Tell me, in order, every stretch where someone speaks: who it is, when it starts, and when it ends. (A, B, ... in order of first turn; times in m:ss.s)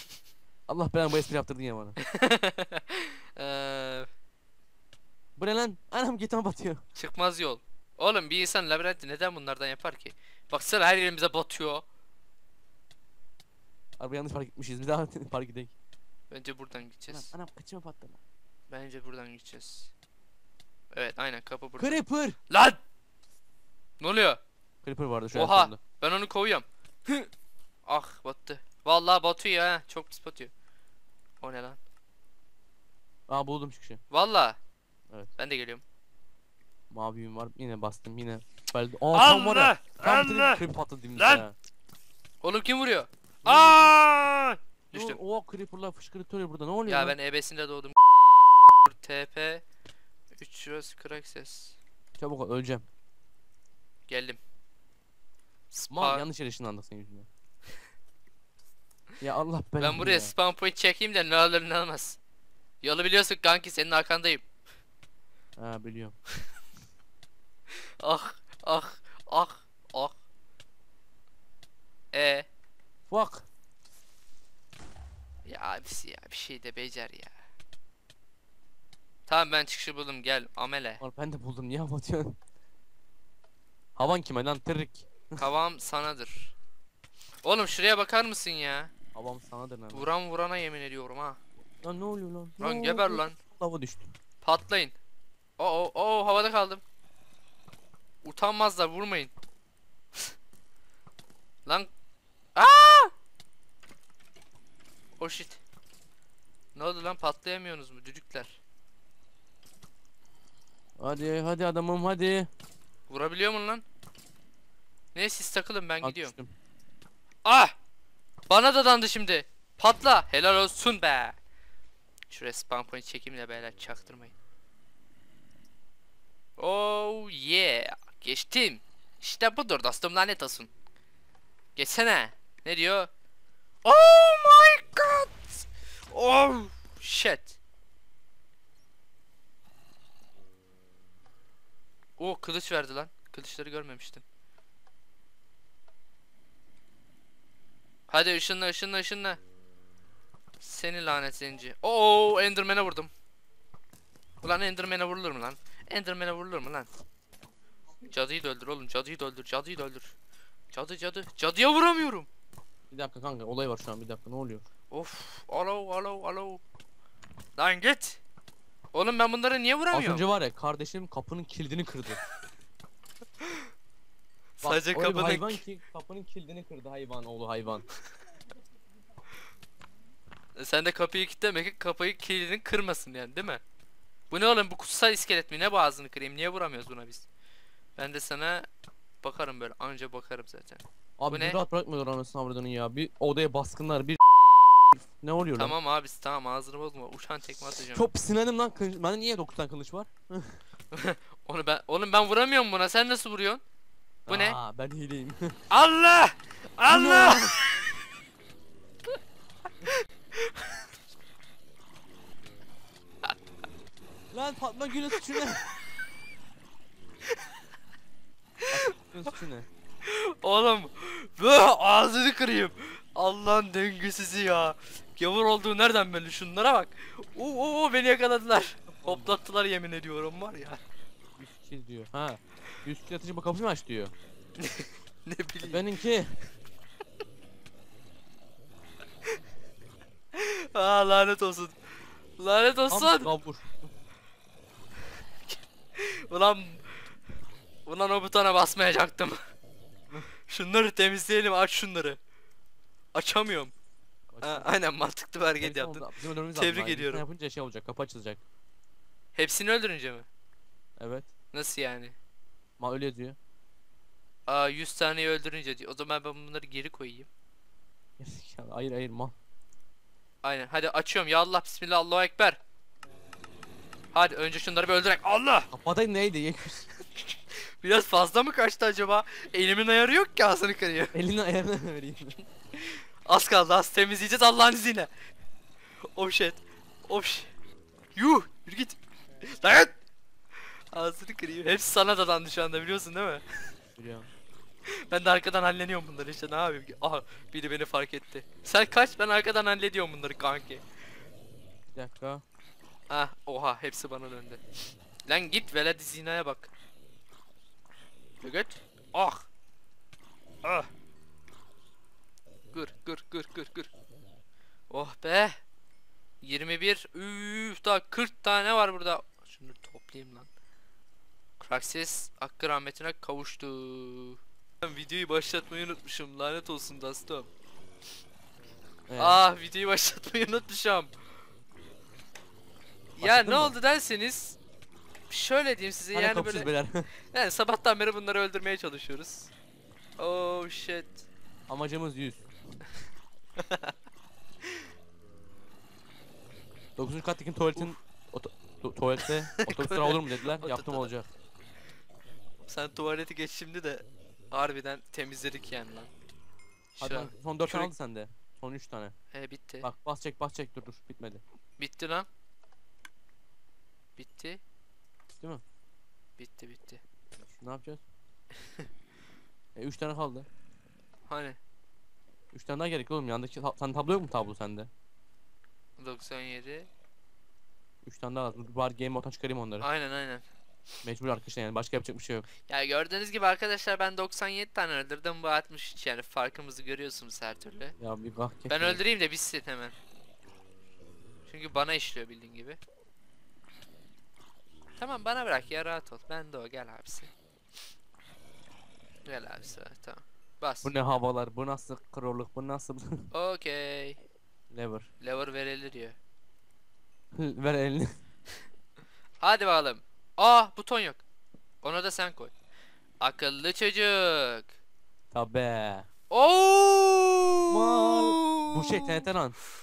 0:00.7-0:02.0 A
0:02.1-0:04.1 B
0:05.4-0:06.8 A
0:07.0-0:11.8 B
0:14.0-0:15.7 A
0:16.3-0:17.3 B
0:17.1-0:18.2 A
0:18.7-0:19.9 B
0:20.9-0:22.8 B
0:21.8-0:22.4 A
0:24.0-0:24.4 B
0:24.8-0:25.8 A
0:25.3-0:27.3 B
0:27.9-0:30.5 B
0:31.4-0:31.8 B
0:33.3-0:34.0 A
0:34.1-0:34.6 B
0:35.4-0:35.8 B
0:36.9-0:41.6 A
0:39.1-0:40.6 B
0:41.2-0:41.4 B
0:42.4-0:45.2 B
0:43.4-0:44.0 A
0:44.9-0:47.2 A
0:46.9-0:48.0 B
0:48.7-0:49.6 B
0:50.3-0:51.8 B
0:52.2-0:52.8 A
0:54.1-0:54.4 B
0:55.7-0:56.3 B
0:55.9-0:57.3 A
0:59.2-1:00.3 A
0:59.8-1:02.2 B
1:02.8-1:04.4 B
1:05.6-1:06.2 A
1:08.0-1:10.2 B
1:12.1-1:12.5 B
1:13.1-1:13.5 A
1:15.5-1:17.4 B
1:19.3-1:21.0 B
1:21.0-1:22.4 A
1:24.0-1:25.4 A
1:25.4-1:26.5 B
1:27.4-1:28.9 B
1:29.2-1:30.1 A
1:29.9-1:31.4 B
1:31.8-1:34.1 A
1:32.6-1:33.4 B
1:34.4-1:35.0 B
1:35.6-1:36.8 B
1:38.2-1:39.3 B
1:42.6-1:43.1 B
1:45.2-1:45.6 B
1:46.8-1:48.6 B
1:51.0-1:52.5 A
1:53.1-1:53.8 B
1:55.1-1:56.3 B
1:56.0-1:56.5 A
1:57.4-1:57.7 B
1:58.5-2:01.4 B
2:02.3-2:04.3 B
2:06.6-2:10.7 B
2:11.8-2:13.1 B
2:13.8-2:17.6 B
2:22.2-2:24.2 B
2:28.1-2:29.4 B
2:30.6-2:33.1 B
2:34.4-2:36.9 B
2:38.1-2:40.2 B
2:40.7-2:42.3 B
2:42.9-2:44.6 A
2:44.9-2:46.6 B
2:47.6-2:48.2 B
2:48.9-2:50.2 B
2:49.9-2:52.2 A
2:54.6-2:55.6 B
2:54.6-2:57.8 A
3:00.6-3:03.6 B
3:04.3-3:07.3 B
3:08.0-3:08.7 B
3:09.2-3:11.6 B
3:11.2-3:14.2 A
3:15.2-3:15.8 A
3:15.6-3:18.1 B
3:17.9-3:20.6 A
3:20.9-3:23.6 B
3:24.3-3:25.6 A
3:24.3-3:24.6 B
3:25.7-3:27.8 B
3:26.9-3:27.5 A
3:29.8-3:30.8 B
3:34.3-3:35.6 A
3:38.7-3:39.7 A
3:40.0-3:50.8 B
3:48.9-3:49.4 A
3:51.4-3:54.1 A
3:54.6-3:55.9 B
3:55.6-3:56.4 A
4:00.3-4:01.8 B
4:02.4-4:03.3 B
4:02.9-4:03.9 A
4:05.5-4:07.0 B
4:07.9-4:09.4 B
4:10.5-4:12.2 B
4:13.1-4:13.7 B
4:14.3-4:14.7 A
4:14.4-4:17.2 B
4:15.6-4:18.4 A
4:19.4-4:20.3 B
4:21.0-4:21.3 A
4:21.5-4:22.2 B
4:22.8-4:23.4 A
4:24.5-4:27.3 B
4:28.2-4:29.4 A
4:30.4-4:32.6 B
4:34.1-4:35.7 B
4:35.7-4:36.9 A
4:37.8-4:41.2 B
4:41.1-4:42.4 A
4:42.8-4:45.1 B
4:46.2-4:47.5 B
4:48.2-4:50.0 B
4:50.9-4:53.4 B
4:54.0-4:54.3 A
4:55.1-5:00.8 B
5:02.0-5:02.4 A
5:03.1-5:04.6 B
5:05.2-5:06.7 B
5:08.4-5:09.5 B
5:10.6-5:10.9 B
5:12.7-5:13.9 B
5:14.9-5:15.6 B
5:16.4-5:20.5 B
5:21.6-5:27.5 B
5:29.1-5:29.4 A
5:29.2-5:31.1 B
5:33.2-5:34.6 B
5:33.2-5:33.8 A
5:35.3-5:36.7 B
5:36.1-5:37.1 A
5:37.3-5:39.5 B
5:40.2-5:41.3 B
5:41.7-5:42.5 A
5:43.6-5:43.9 B
5:47.0-5:51.3 A
5:49.2-5:51.1 B
5:52.6-5:56.1 B
5:57.0-5:57.9 B
5:57.0-5:59.1 A
5:59.3-5:59.9 B
5:59.8-6:01.4 A
6:01.8-6:02.3 B
6:04.2-6:04.6 B
6:06.4-6:07.0 B
6:07.4-6:08.0 A
6:09.8-6:10.5 A
6:11.3-6:11.6 B
6:12.5-6:14.9 A
6:16.0-6:16.9 B
6:18.0-6:19.9 A
6:19.8-6:20.5 B
6:21.0-6:22.5 A
6:22.7-6:28.0 B
6:28.0-6:29.0 A
6:28.7-6:30.0 B
6:31.5-6:32.8 B
6:35.0-6:37.3 B
6:39.2-6:41.0 B
6:40.8-6:43.3 A
6:43.3-6:44.2 B
6:44.7-6:45.1 A
6:45.2-6:46.2 B
6:47.4-6:48.1 A
6:49.4-6:51.2 B
6:51.8-6:52.5 B
6:53.2-6:54.7 B
6:55.3-6:56.1 A
6:56.3-6:59.2 B
6:57.7-6:59.6 A